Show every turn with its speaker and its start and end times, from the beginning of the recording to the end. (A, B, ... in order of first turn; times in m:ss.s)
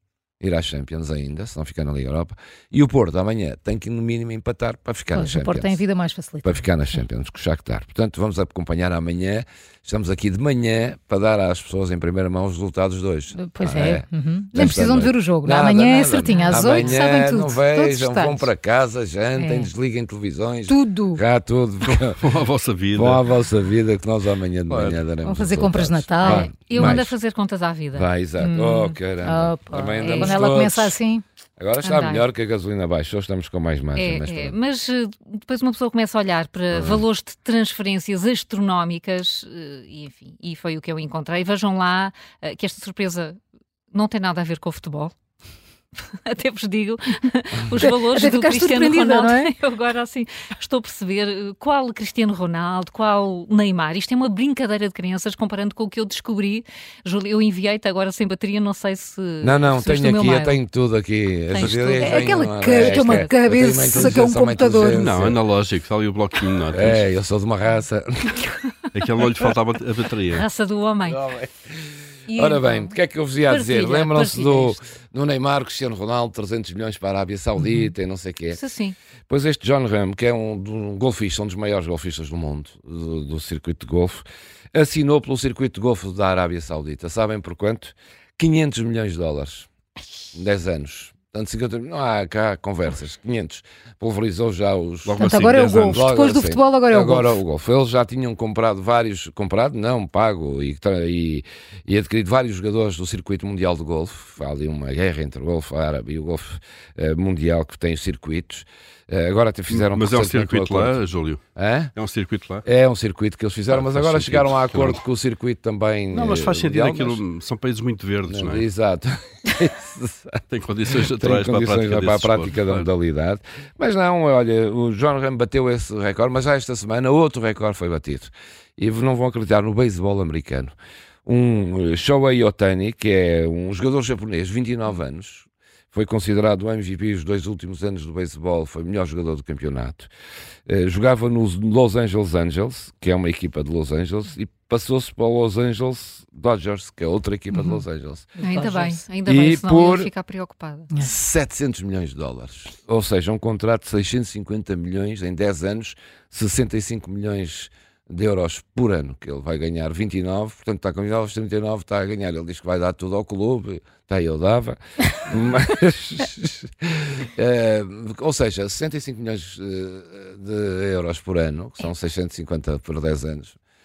0:00.4-0:05.8 A
0:05.1-0:06.7 B
0:06.4-0:22.2 A
0:13.3-0:18.5 B
0:16.2-0:16.9 C
0:19.4-0:19.7 B
0:20.6-0:21.2 B
0:21.9-0:23.2 D
0:22.9-0:27.2 A
0:24.7-0:25.0 D
0:25.2-0:27.0 B
0:26.2-0:28.1 C
0:27.9-0:31.0 A
0:28.4-0:31.2 B
0:30.0-0:30.4 C
0:31.6-0:34.6 A
0:31.8-0:32.3 C
0:34.0-0:43.4 C
0:36.7-0:37.0 A
0:43.9-0:45.1 C
0:46.0-1:00.6 C
0:47.8-0:49.5 B
0:59.4-1:05.4 A
1:01.5-1:03.3 C
1:02.0-1:05.1 B
1:04.9-1:07.0 D
1:06.7-1:08.6 A
1:08.9-1:10.4 D
1:10.3-1:11.2 C
1:11.0-1:18.6 A
1:12.3-1:12.9 C
1:13.5-1:14.8 C
1:18.5-1:19.0 C
1:19.3-1:29.7 A
1:30.3-1:35.2 A
1:35.0-1:36.1 D
1:35.2-1:37.4 B
1:35.9-1:51.0 A
1:49.7-1:51.4 D
1:51.6-1:51.9 A
1:52.0-1:52.6 D
1:52.6-1:57.2 A
1:53.7-1:55.0 D
1:56.1-1:58.6 D
1:58.3-2:10.7 A
2:00.5-2:02.9 D
2:11.2-2:20.1 A
2:20.7-2:28.4 A
2:27.5-2:27.8 B
2:28.4-2:29.0 B
2:28.4-2:30.9 C
2:29.2-2:30.1 A
2:31.0-2:53.6 A